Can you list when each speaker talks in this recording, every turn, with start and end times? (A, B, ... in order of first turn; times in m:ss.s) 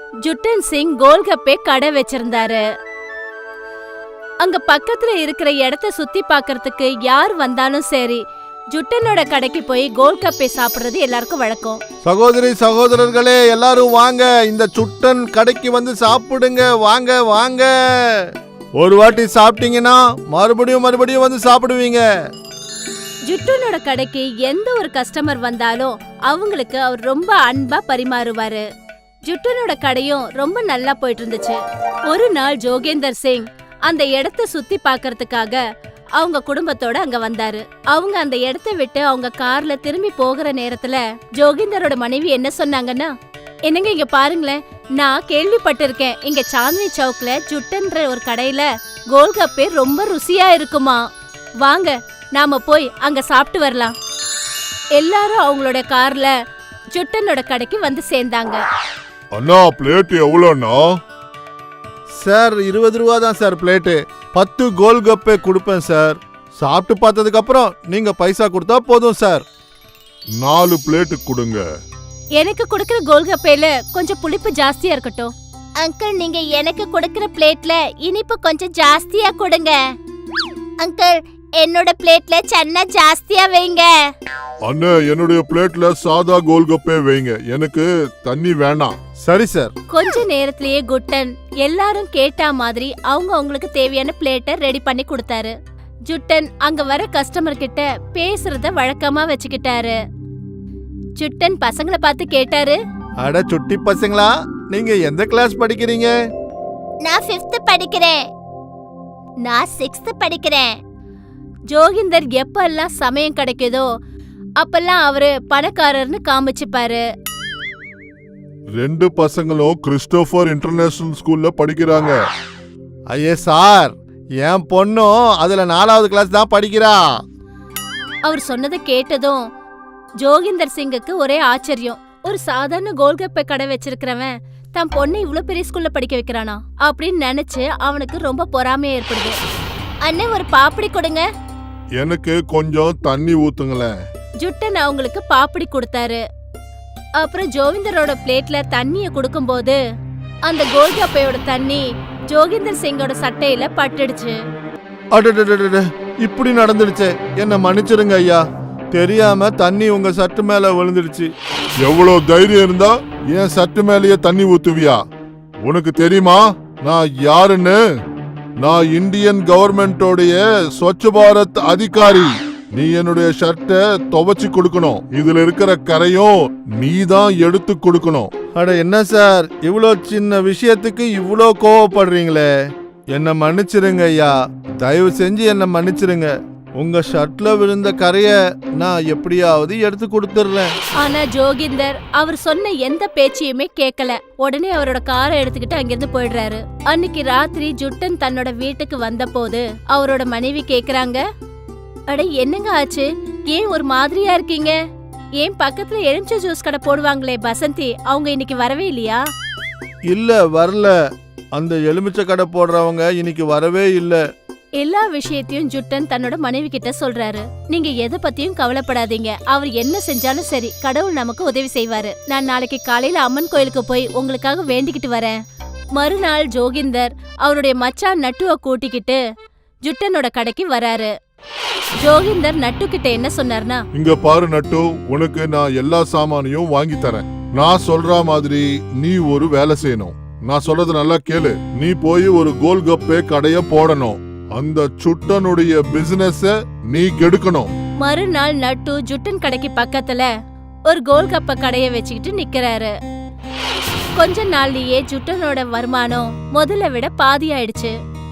0:00.2-0:02.6 A
0:04.4-0:08.2 A
0:08.7-0:11.8 A
0:12.0-0:22.0 B
0:23.3-0:28.6 A
0:29.3-0:35.6 A
0:36.2-0:43.1 A
0:43.7-0:51.0 A
0:51.6-0:53.9 A
0:55.0-0:56.3 A
0:56.9-0:58.6 A
0:59.4-1:00.8 C
1:02.2-1:09.4 B
1:10.4-1:11.6 C
1:12.4-1:19.8 A
1:20.8-1:23.9 A
1:24.7-1:29.0 C
1:29.2-1:29.7 B
1:29.9-1:35.5 A
1:36.1-1:40.0 A
1:41.2-1:42.8 A
1:43.2-1:46.1 B
1:47.0-1:48.2 A
1:49.4-1:50.8 A
1:51.7-1:53.9 A
1:54.6-1:57.0 A
1:58.8-2:02.2 C
2:03.1-2:07.0 B
2:08.3-2:09.4 A
2:10.2-2:19.4 A
2:20.0-2:21.2 A
2:22.0-2:23.9 C
2:24.4-2:26.2 A
2:27.2-2:29.8 A
2:30.5-2:34.4 A
2:35.1-2:41.3 B
2:41.8-2:45.0 C
2:45.6-2:47.8 C
2:48.6-2:58.3 C
2:58.5-3:02.5 B
3:03.1-3:10.7 B
3:11.0-3:21.2 A
3:22.1-3:24.7 A
3:25.4-3:29.2 A
3:30.1-3:30.9 B
3:31.6-3:34.2 B
3:34.8-3:45.4 A
3:46.0-3:49.2 A
3:49.8-3:51.1 A
3:52.0-3:53.8 A
3:53.9-4:07.7 C
4:08.0-4:10.3 A
4:10.9-4:12.9 A
4:14.2-4:17.9 A